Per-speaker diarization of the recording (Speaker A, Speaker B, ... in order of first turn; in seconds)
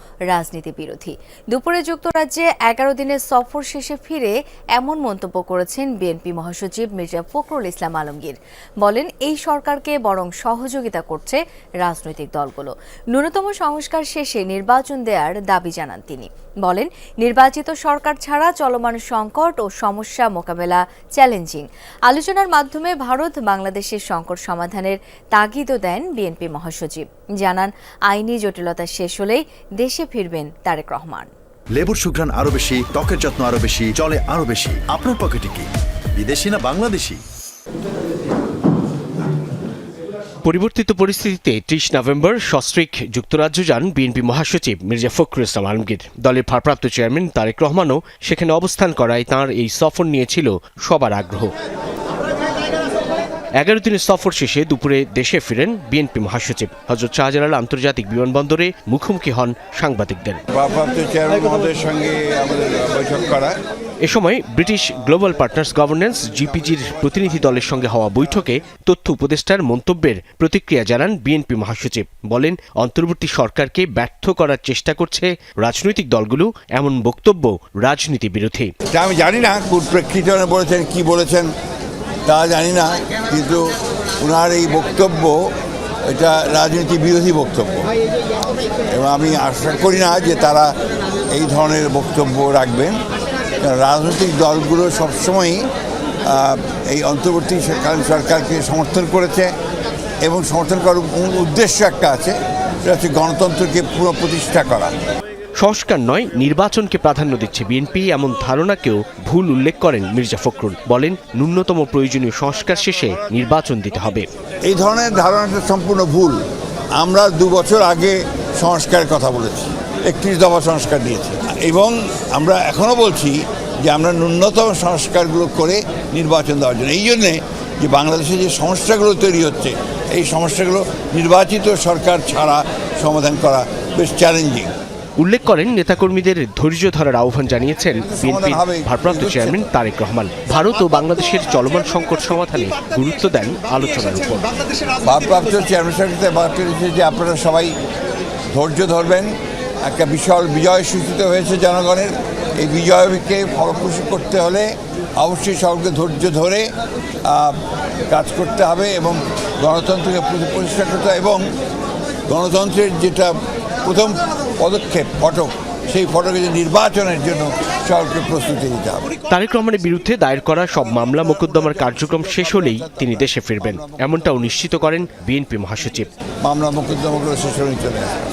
Speaker A: 0.3-31.3
Speaker B: 31.8-37.2
Speaker C: 40.4-51.5, 53.6-60.4, 64.0-78.7, 105.6-114.3, 135.2-144.5, 169.3-176.1
Speaker D: 60.5-63.5, 78.9-81.5, 82.2-85.4, 86.1-87.9, 88.9-90.7, 91.3-93.0, 93.6-95.7, 96.2-99.5, 100.2-104.9, 114.6-116.4, 117.0-134.7, 138.1-139.6, 145.0-147.7, 148.5-149.3, 149.8-156.7, 157.2-161.4, 162.3-169.1, 176.4-178.2